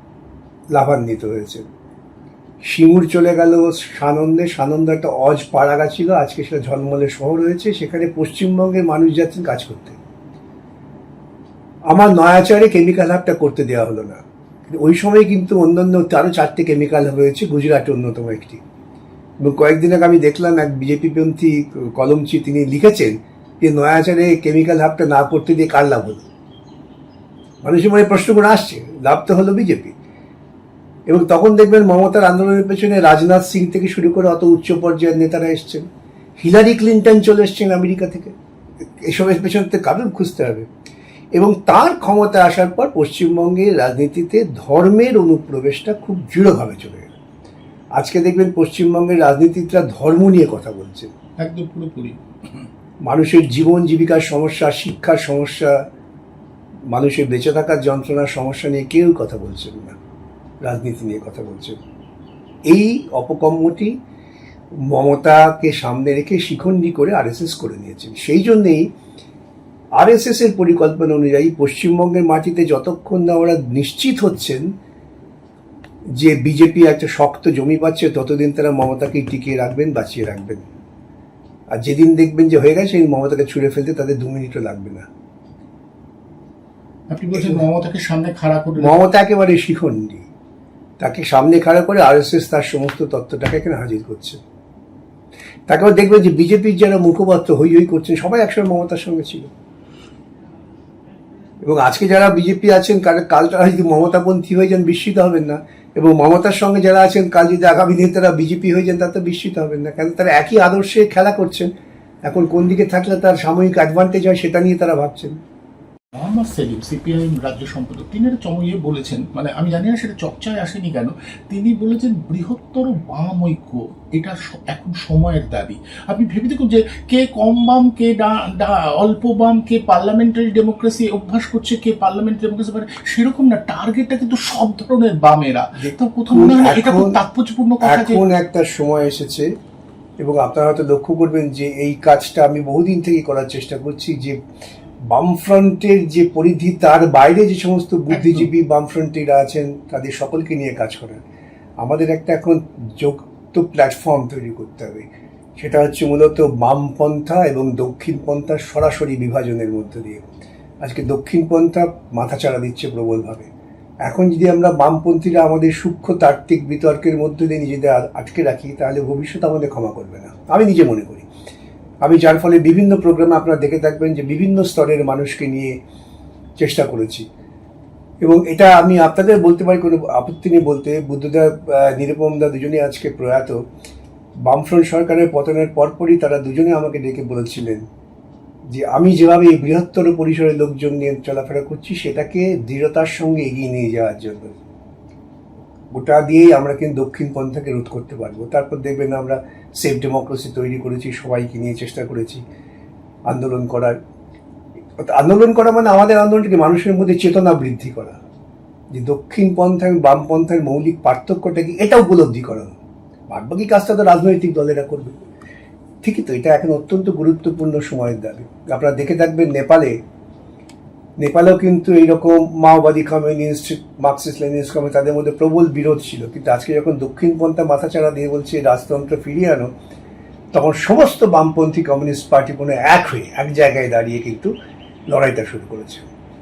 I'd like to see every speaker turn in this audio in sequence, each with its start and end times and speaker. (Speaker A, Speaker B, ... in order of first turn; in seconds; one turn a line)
Speaker A: 0.7-1.6
Speaker A: 2.6-10.0
Speaker A: 11.9-18.6
Speaker A: 19.4-26.2
Speaker A: 27.6-30.0
Speaker A: 31.1-35.9
Speaker A: 36.4-38.3
Speaker A: 39.0-40.7
Speaker A: 41.3-47.1
Speaker A: 48.0-51.1
Speaker B: 51.4-52.2
Speaker A: 53.0-55.8
Speaker A: 56.9-60.0
Speaker A: 60.6-61.8
Speaker A: 62.7-64.0
Speaker A: 64.8-68.9
Speaker A: 70.0-74.7
Speaker A: 76.1-80.7
Speaker A: 81.7-85.1
Speaker B: 87.1-89.0
Speaker A: 87.3-87.6
Speaker A: 88.8-90.3
Speaker A: 91.0-94.4
Speaker A: 95.7-99.5
Speaker A: 101.6-111.7
Speaker A: 112.2-115.3
Speaker B: 116.1-138.2
Speaker A: 135.8-137.2
Speaker A: 137.8-139.5
Speaker A: 140.2-144.4
Speaker A: 145.1-151.2
Speaker B: 148.1-148.5
Speaker A: 151.8-160.3
Speaker A: 160.8-163.5
Speaker A: 164.1-171.3
Speaker A: 172.0-175.8
Speaker A: 176.6-177.2
Speaker A: 178.2-183.6
Speaker A: 184.5-187.8
Speaker A: 188.7-194.6
Speaker A: 195.9-202.4
Speaker A: 203.3-204.0
Speaker A: 205.0-208.2
Speaker A: 208.9-212.8
Speaker A: 213.3-215.2
Speaker A: 216.0-219.9
Speaker A: 221.2-229.7
Speaker A: 230.5-234.5
Speaker A: 235.1-236.1